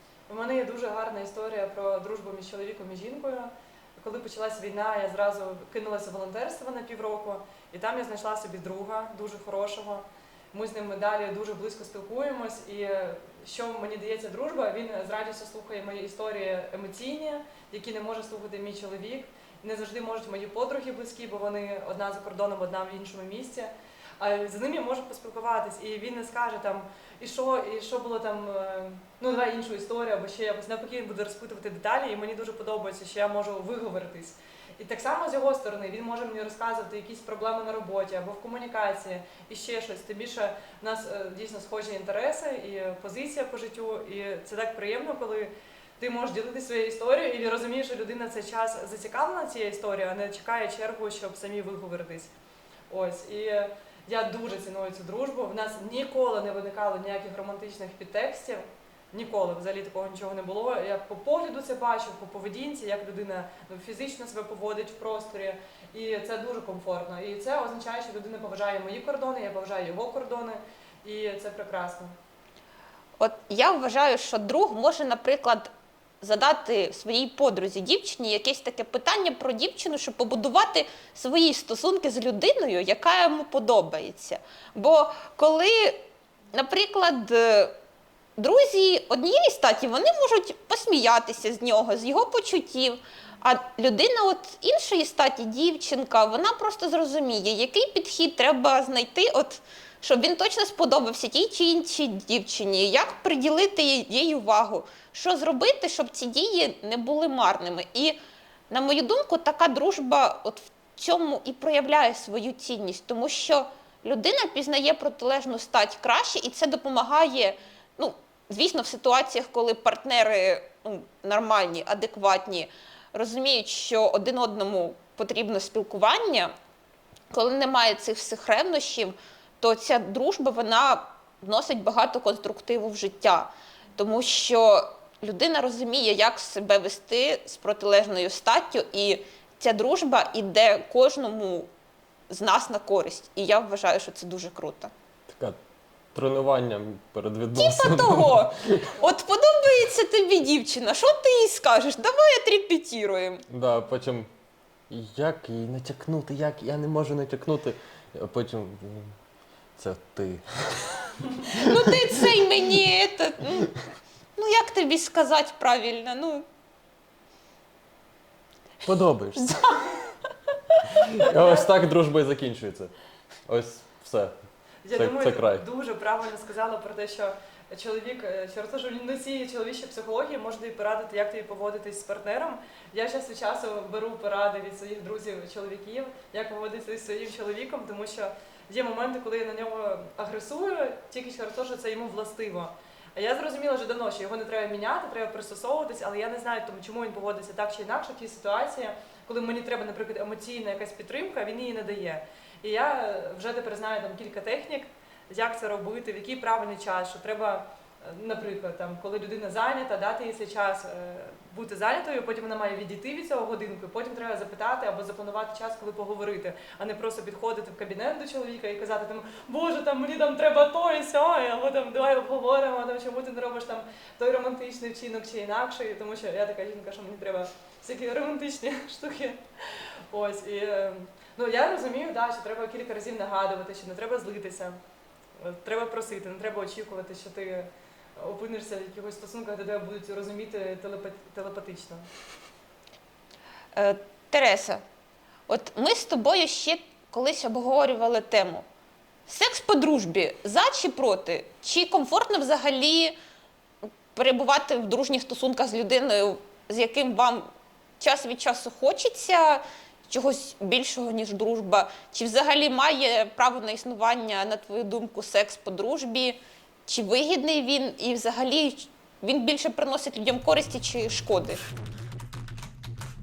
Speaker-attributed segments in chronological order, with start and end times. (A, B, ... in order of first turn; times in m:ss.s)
0:00.3-0:52.3 A
0:52.9-1:12.1 A
1:13.2-1:27.7 B
1:28.4-1:48.2 B
1:48.7-2:06.5 B
2:07.3-2:21.7 B
2:22.3-2:24.9 B
2:25.3-2:25.6 C
2:26.1-2:29.0 C
2:27.5-2:33.4 B
2:33.5-2:34.3 C
2:34.9-2:39.1 C
2:39.8-2:41.1 C
2:41.5-2:43.7 B
2:44.4-2:46.4 B
2:48.8-2:49.5 C
2:49.4-2:50.1 B
2:50.9-2:52.9 C
2:51.2-2:51.7 A
2:53.5-2:54.3 C
2:54.8-3:54.8 A
2:54.9-2:55.6 C
3:55.4-4:02.0 A
4:03.7-4:04.8 B
4:05.5-4:08.6 B
4:09.3-4:13.1 B
4:14.1-4:17.5 B
4:18.0-4:31.6 B